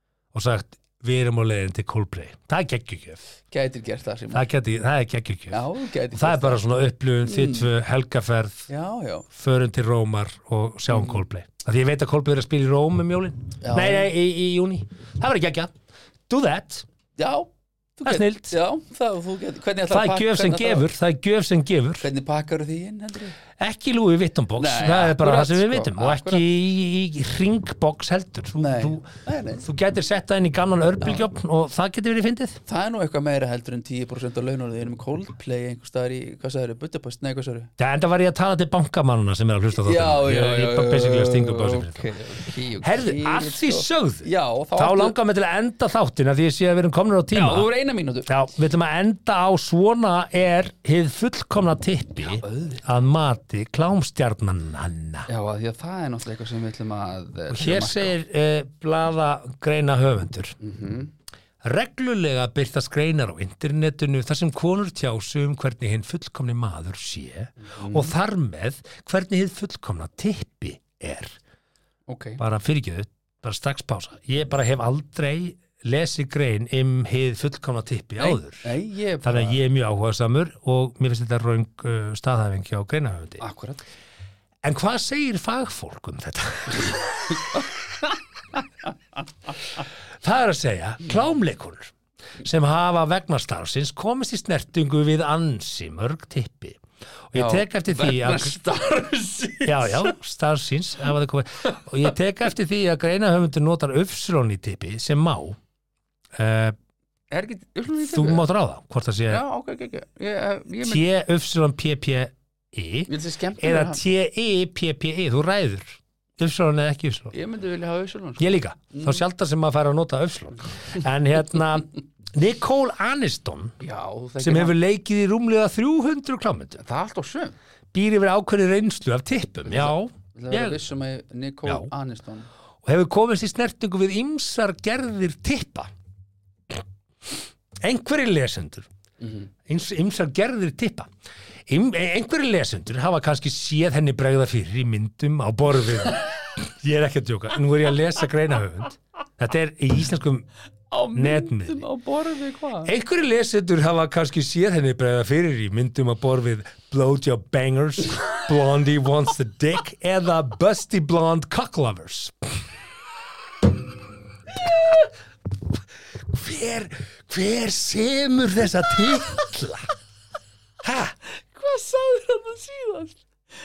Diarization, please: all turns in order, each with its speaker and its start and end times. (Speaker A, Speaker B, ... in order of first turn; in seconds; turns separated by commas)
Speaker A: 0.3-3.3, Speaker B: 3.5-4.5, Speaker A: 4.3-8.7, Speaker B: 5.5-6.6, Speaker B: 7.2-7.7, Speaker B: 8.7-9.3, Speaker A: 9.3-15.7, Speaker B: 10.9-11.2, Speaker B: 13.6-14.1, Speaker A: 16.3-16.9, Speaker B: 17.2-20.9, Speaker A: 18.1-18.6, Speaker A: 19.9-22.1, Speaker B: 22.0-23.4, Speaker A: 23.6-29.1, Speaker B: 24.6-26.4, Speaker B: 28.6-29.6, Speaker A: 29.6-32.6, Speaker B: 31.0-31.3, Speaker B: 32.7-37.7, Speaker A: 37.8-42.1, Speaker B: 39.7-45.2, Speaker A: 42.8-47.7, Speaker B: 47.3-48.3, Speaker A: 48.3-55.3, Speaker B: 52.3-52.8, Speaker B: 55.3-58.2, Speaker A: 57.5-60.6, Speaker B: 60.6-61.1, Speaker A: 61.6-71.4, Speaker B: 67.6-68.2, Speaker B: 72.1-72.4, Speaker A: 72.4-83.4, Speaker B: 78.2-79.6, Speaker B: 83.4-83.8, Speaker A: 84.6-87.4, Speaker B: 87.3-89.5, Speaker A: 90.2-98.6, Speaker B: 97.3-100.2, Speaker A: 99.6-105.6, Speaker A: 106.4-106.8, Speaker B: 107.3-108.5, Speaker A: 108.0-109.4, Speaker B: 109.3-111.1, Speaker A: 110.8-117.3, Speaker B: 113.1-114.0, Speaker B: 117.3-119.2, Speaker A: 118.4-123.8, Speaker B: 123.8-124.8, Speaker A: 124.4-126.8, Speaker B: 126.8-127.6, Speaker A: 127.9-130.8, Speaker B: 129.7-132.5, Speaker A: 131.7-131.9, Speaker A: 132.8-135.9, Speaker A: 137.8-138.9, Speaker B: 139.2-139.5, Speaker A: 139.7-141.1, Speaker A: 141.7-150.5, Speaker B: 150.9-152.9, Speaker A: 151.2-151.9, Speaker A: 152.8-162.5, Speaker A: 166.2-169.9, Speaker A: 170.8-171.2, Speaker B: 171.4-173.2